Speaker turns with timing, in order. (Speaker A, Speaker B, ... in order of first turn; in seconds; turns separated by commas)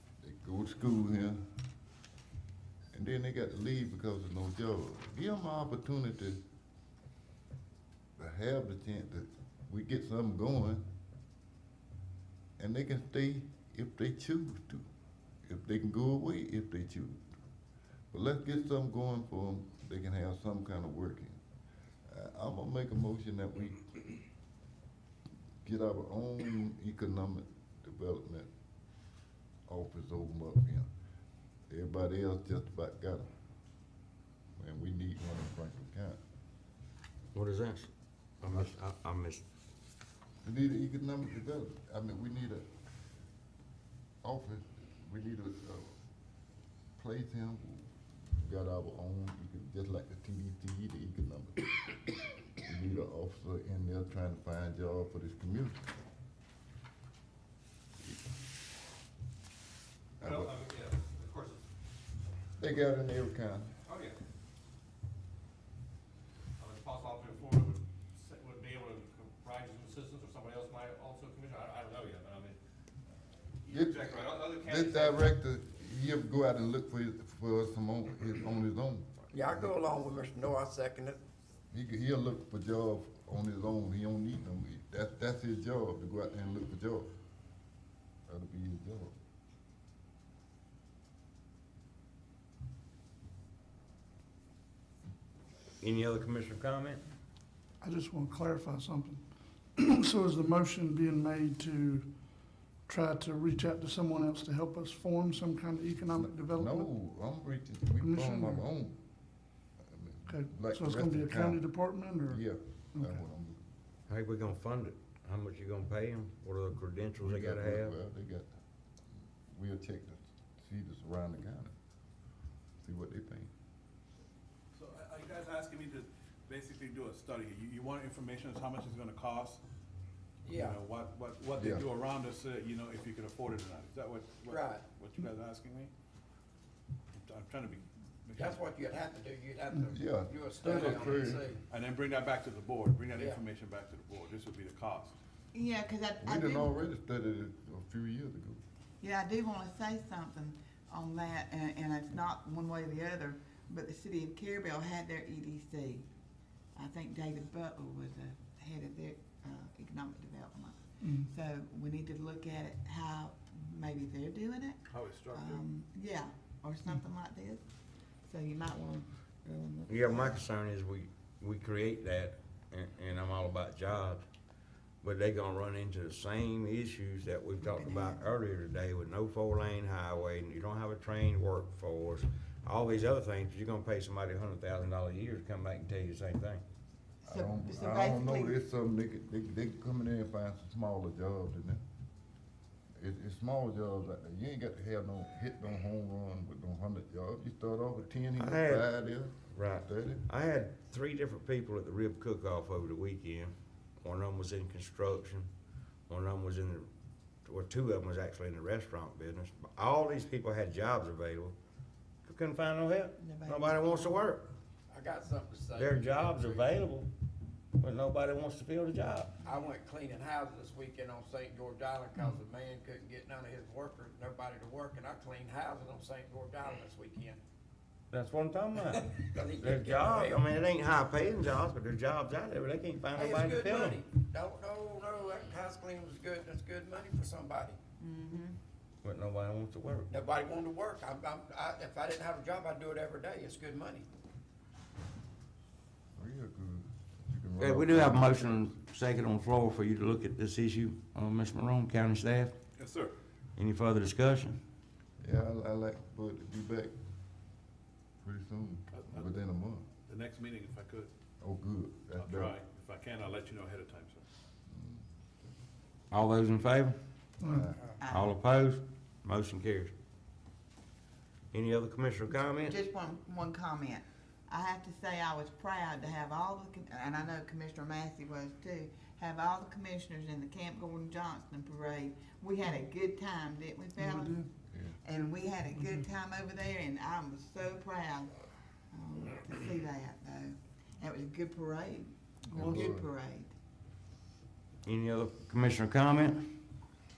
Speaker A: 0.2-1.4, Speaker A: 2.9-6.4, Speaker A: 8.2-10.9, Speaker A: 12.6-14.9, Speaker A: 15.4-17.2, Speaker A: 18.1-21.4, Speaker A: 22.1-23.9, Speaker A: 25.6-28.5, Speaker A: 29.7-30.9, Speaker A: 31.7-33.3, Speaker A: 34.6-36.2, Speaker B: 37.3-37.9, Speaker B: 38.4-39.4, Speaker A: 40.4-42.7, Speaker A: 44.2-46.0, Speaker A: 47.0-52.0, Speaker A: 52.5-55.9, Speaker A: 60.2-60.6, Speaker C: 60.2-61.6, Speaker A: 62.6-63.7, Speaker C: 63.9-64.1, Speaker C: 66.6-72.5, Speaker C: 73.6-75.2, Speaker A: 73.7-79.7, Speaker D: 79.3-81.2, Speaker A: 81.7-87.1, Speaker A: 88.3-89.2, Speaker B: 95.8-97.0, Speaker E: 97.8-106.9, Speaker A: 106.1-109.0, Speaker E: 108.0-108.7, Speaker A: 109.8-113.6, Speaker E: 110.3-112.4, Speaker E: 112.9-113.2, Speaker B: 114.1-117.9, Speaker A: 117.2-118.5, Speaker A: 119.5-121.8, Speaker A: 122.8-123.5, Speaker F: 124.8-129.6, Speaker D: 130.4-130.8, Speaker F: 130.6-135.9, Speaker A: 131.6-131.8, Speaker D: 134.5-134.9, Speaker F: 137.1-138.6, Speaker D: 138.4-141.6, Speaker A: 139.9-141.4, Speaker F: 140.6-141.2, Speaker F: 141.7-145.2, Speaker D: 143.2-143.4, Speaker G: 145.5-146.7, Speaker A: 146.2-148.6, Speaker G: 149.0-156.1, Speaker G: 156.8-167.6, Speaker E: 161.0-161.3, Speaker F: 164.9-165.6, Speaker G: 168.3-170.4, Speaker B: 169.9-174.2, Speaker B: 175.0-186.6, Speaker G: 177.6-178.3, Speaker A: 187.3-191.8, Speaker G: 187.3-188.6, Speaker A: 193.0-200.2, Speaker B: 198.4-198.9, Speaker B: 199.5-205.5, Speaker B: 206.1-206.9, Speaker B: 207.4-211.6, Speaker B: 212.2-214.5, Speaker G: 213.2-214.3, Speaker D: 214.9-216.7, Speaker B: 215.8-217.1, Speaker B: 217.8-219.4, Speaker D: 219.4-227.4, Speaker B: 228.1-234.0, Speaker D: 228.8-230.4, Speaker D: 233.2-237.8, Speaker G: 238.0-238.6, Speaker B: 239.0-240.1, Speaker D: 240.1-244.1, Speaker A: 246.2-248.6, Speaker B: 247.6-252.5, Speaker F: 252.8-253.2, Speaker B: 253.6-254.6, Speaker A: 255.2-256.9, Speaker A: 258.2-259.9, Speaker F: 258.9-259.4, Speaker F: 260.1-261.1, Speaker A: 261.4-262.5, Speaker F: 262.2-264.2, Speaker A: 264.7-265.1, Speaker B: 266.1-267.0, Speaker E: 267.4-267.7, Speaker A: 267.5-267.8, Speaker G: 268.0-268.4, Speaker B: 268.1-269.9, Speaker B: 271.5-272.8, Speaker G: 272.5-284.4, Speaker E: 284.0-284.4, Speaker G: 285.0-288.3, Speaker G: 288.9-293.5, Speaker A: 292.5-293.1, Speaker B: 294.9-296.6